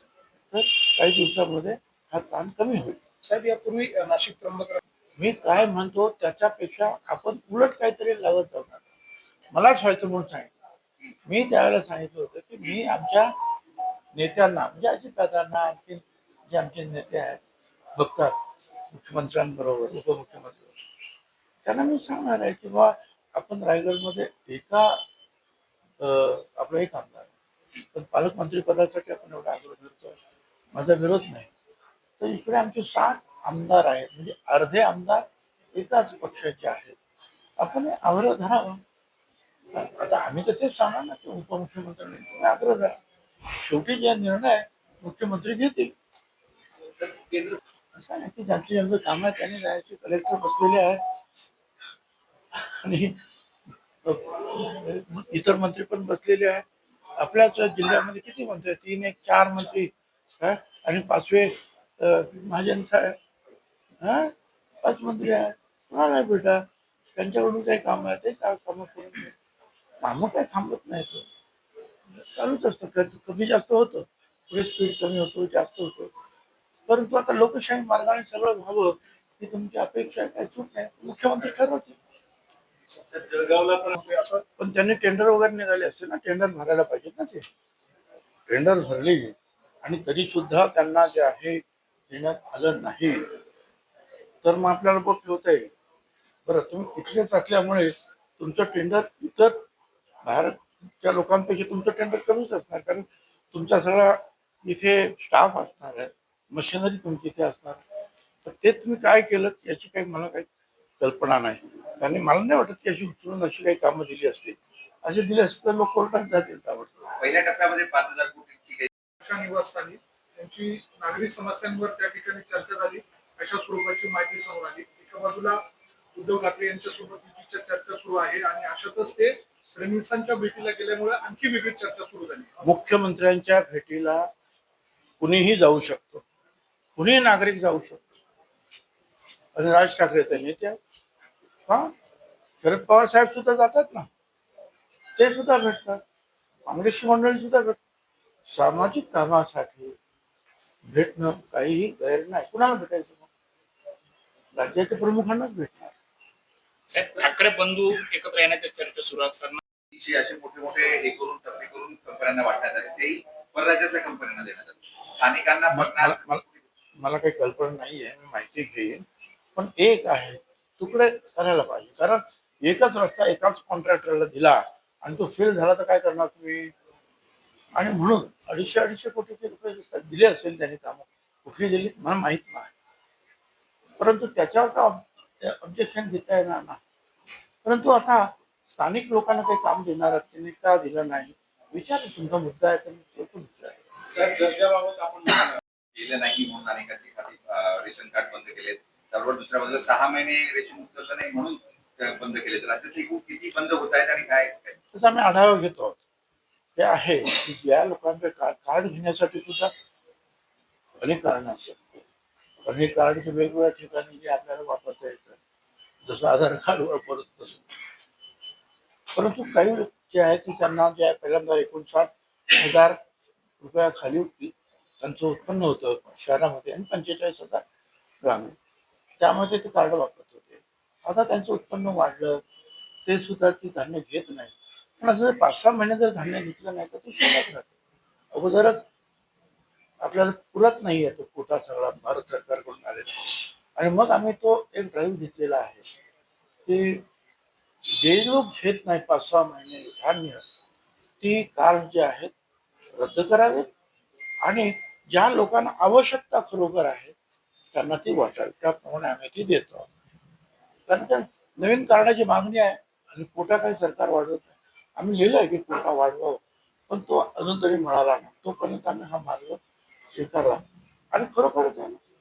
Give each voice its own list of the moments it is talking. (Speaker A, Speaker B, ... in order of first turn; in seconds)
Speaker A: 0.5-3.0, 5.2-8.8, 9.5-10.5, 11.3-13.3, 14.1-17.4, 18.0-18.3, 18.9-20.7, 21.6-25.0, 26.0-27.3, 27.9-30.2, 30.7-31.5, 32.2-37.0, 37.6-38.8, 39.7-43.0, 43.6-45.9, 48.0-51.0, 52.5-53.2, 54.0-56.6, 57.2-63.1, 64.0-64.3, 64.8-66.6, 67.2-69.3, 70.0-71.2, 72.2-76.1, 76.9-82.0, 84.6-87.4, 88.5-93.2, 94.4-95.7, 96.5-99.6, 100.2-107.8, 108.4-110.5, 111.0-117.1, 132.6-134.3, 135.2-136.2, 136.9-138.1, 139.5-140.8, 141.7-141.9, 142.6-144.1, 145.2-146.0, 146.7-147.8, 148.5-149.9, 150.8-153.3, 154.6-155.9, 165.7-166.4, 167.0-169.0, 169.6-176.7, 177.8-182.7, 184.0-186.8, 187.6-193.8, 204.9-206.0, 206.8-209.7, 211.0-212.0, 212.6-215.4, 216.1-217.6, 219.1-223.0, 223.6-227.6, 228.2-228.5, 229.2-232.4, 233.1-237.7, 238.3-238.8, 240.0-245.8, 246.7-247.0, 247.9-250.4, 251.2-252.3, 253.0-253.7, 254.4-257.1, 257.7-259.9, 260.9-269.6, 270.1-272.0
Speaker B: 3.2-4.8, 83.3-84.1, 119.2-125.6, 126.1-132.5
Speaker C: 117.2-118.9, 159.9-166.6, 194.2-204.7
Speaker D: 156.9-159.6